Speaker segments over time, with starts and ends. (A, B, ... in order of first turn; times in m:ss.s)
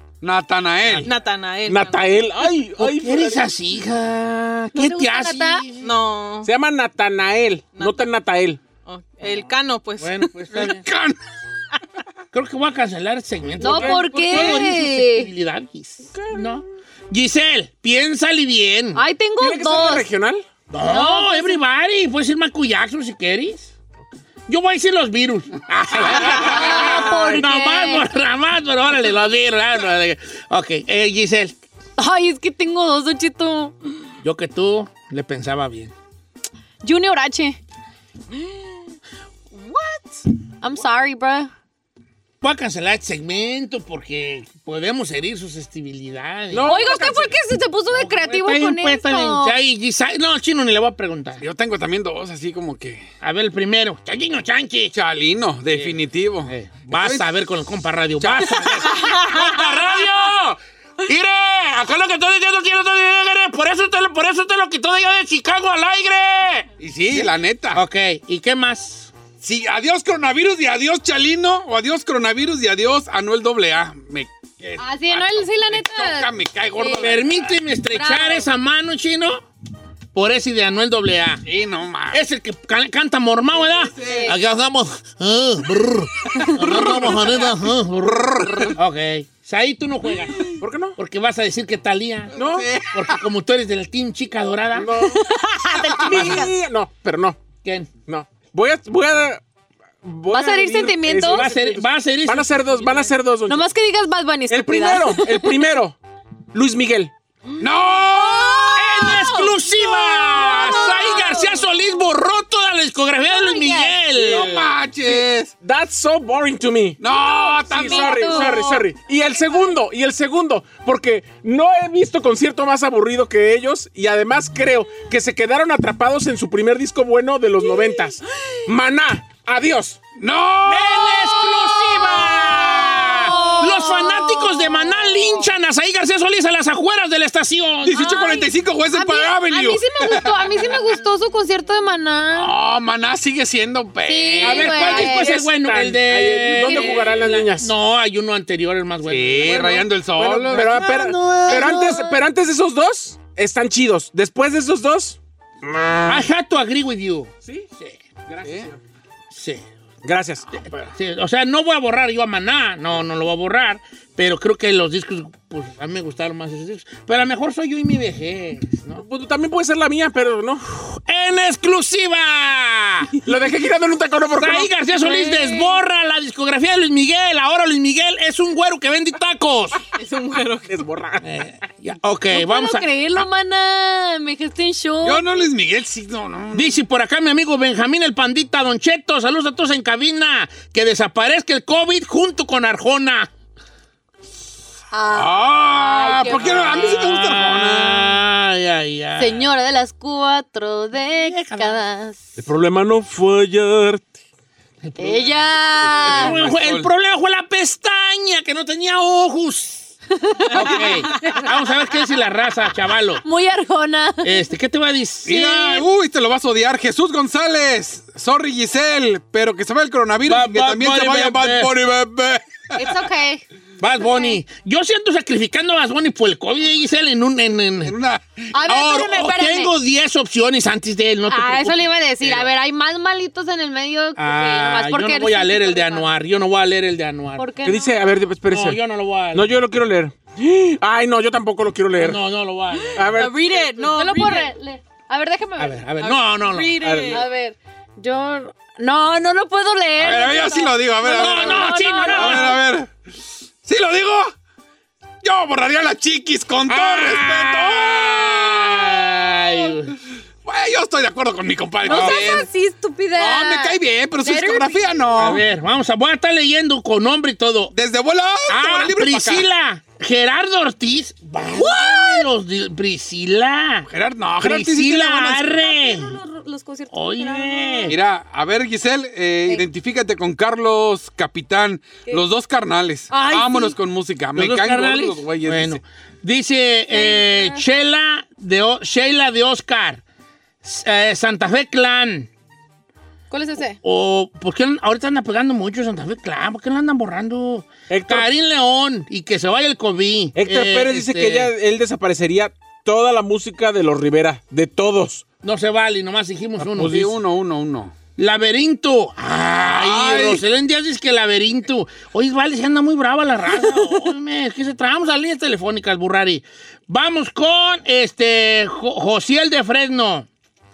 0:00.2-0:01.1 A
0:00.8-0:01.1 B
0:01.0-0:02.1 C
0:01.7-0:03.5 D
0:02.8-0:05.9 B
0:04.8-0:05.6 E
0:05.8-0:06.5 C
0:06.4-0:08.6 D
0:07.8-0:08.0 C
0:08.9-0:10.3 C
0:10.0-0:10.9 B
0:10.5-0:11.2 A
0:12.3-0:19.0 B
0:13.6-0:14.6 D
0:13.6-0:15.3 E
0:16.1-0:16.5 D
0:19.0-0:20.0 E
0:19.4-0:20.4 D
0:20.7-0:23.7 B
0:20.9-0:21.6 E
0:24.5-0:31.6 B
0:26.2-0:28.1 E
0:32.0-0:33.8 E
0:34.2-0:35.9 B
0:36.8-0:37.6 E
0:38.3-0:38.6 E
0:39.5-0:41.5 E
0:42.4-0:46.7 B
0:46.5-0:47.4 D
0:46.6-0:49.5 E
0:47.9-0:51.4 B
0:51.4-0:53.1 A
0:53.2-0:54.9 B
0:54.9-0:57.3 A
0:55.7-1:09.1 B
0:58.2-0:58.7 A
1:06.8-1:07.8 A
1:09.4-1:17.6 A
1:14.8-1:17.1 E
1:17.0-1:19.4 B
1:17.9-1:18.5 E
1:20.1-1:21.4 B
1:21.4-1:22.2 A
1:22.1-1:32.4 B
1:23.6-1:24.3 A
1:24.0-1:24.4 E
1:26.4-1:26.8 E
1:26.4-1:27.6 A
1:28.1-1:28.8 A
1:30.5-1:31.0 D
1:32.4-1:32.7 D
1:32.4-1:33.2 A
1:32.9-1:34.9 B
1:34.7-1:35.2 D
1:35.0-1:36.5 E
1:36.0-1:37.4 D
1:37.6-1:37.9 B
1:38.1-1:39.4 D
1:40.0-1:43.6 D
1:40.3-1:41.5 E
1:41.3-1:42.5 B
1:43.5-1:45.5 E
1:44.5-1:46.0 D
1:46.5-1:47.1 D
1:47.6-1:49.2 A
1:48.0-1:51.6 E
1:48.8-1:54.7 B
1:53.3-1:54.0 E
1:54.2-1:55.5 A
1:55.1-1:57.0 D
1:57.0-1:58.5 A
1:57.2-1:58.8 E
1:57.7-2:10.0 D
2:10.2-2:11.5 A
2:10.6-2:18.1 B
2:11.5-2:15.4 E
2:17.8-2:20.8 A
2:17.9-2:22.5 E
2:22.3-2:24.8 A
2:24.1-2:25.4 E
2:24.4-2:27.7 D
2:24.4-2:29.9 B
2:26.6-2:27.0 E
2:29.0-2:30.7 A
2:30.2-2:36.3 D
2:30.5-2:31.8 B
2:30.6-2:32.2 E
2:36.0-2:38.0 B
2:38.3-2:38.8 D
2:38.4-2:38.7 A
2:39.3-2:39.6 B
2:40.0-2:40.4 D
2:40.5-2:40.9 A
2:40.5-2:49.0 B
2:49.0-2:50.7 D
2:50.8-2:53.1 B
2:53.3-2:54.7 D
2:54.4-2:59.8 B
2:55.0-2:55.8 E
3:00.0-3:00.7 C
3:00.7-3:01.2 D
3:01.2-3:02.9 B
3:02.3-3:05.5 E
3:05.0-3:06.8 A
3:06.5-3:13.3 B
3:14.9-3:17.1 E
3:15.1-3:18.2 A
3:16.7-3:19.5 B
3:19.2-3:22.2 E
3:21.3-3:21.8 B
3:22.4-3:24.1 D
3:24.8-3:25.3 B
3:25.0-3:26.4 E
3:26.0-3:26.9 A
3:26.0-3:29.9 B
3:30.2-3:30.7 E
3:30.5-3:33.2 B
3:33.2-3:34.5 E
3:34.2-3:35.8 B
3:35.3-3:43.0 A
3:40.3-3:41.7 B
3:42.8-3:43.4 E
3:43.8-3:48.0 B
3:44.0-3:44.4 E
3:47.8-3:48.8 A
3:48.5-3:49.7 E
3:48.7-3:51.8 B
3:51.3-3:56.1 E
3:52.2-3:52.5 A
3:54.2-3:57.5 B
3:57.4-3:58.0 E
3:57.6-3:58.8 D
3:58.5-3:59.5 B
3:59.3-4:02.2 D
4:02.0-4:03.0 B
4:02.9-4:04.5 C
4:03.0-4:03.4 D
4:03.5-4:05.9 E
4:05.6-4:06.8 B
4:06.0-4:07.2 C
4:06.8-4:07.2 D
4:07.1-4:12.6 E
4:10.0-4:12.9 A
4:11.1-4:12.6 B
4:13.6-4:14.3 A
4:15.2-4:19.2 A
4:16.7-4:20.0 B
4:20.4-4:22.5 A
4:21.8-4:25.1 E
4:21.9-4:22.4 B
4:23.2-4:25.4 A
4:25.2-4:27.7 B
4:27.7-4:29.5 A
4:28.5-4:33.9 B
4:31.5-4:32.3 E
4:33.9-4:35.5 A
4:34.4-4:36.2 B
4:35.6-4:38.0 E
4:36.9-4:38.0 B
4:37.9-4:45.8 A
4:43.1-4:43.8 E
4:44.4-4:50.0 B
4:46.9-4:47.6 E
4:50.6-4:52.3 B
4:53.3-4:53.8 E
4:53.8-5:01.5 B
4:57.9-4:58.3 D
5:00.4-5:05.2 D
5:05.4-5:07.2 B
5:06.6-5:07.9 A
5:08.2-5:20.3 B
5:09.6-5:10.4 A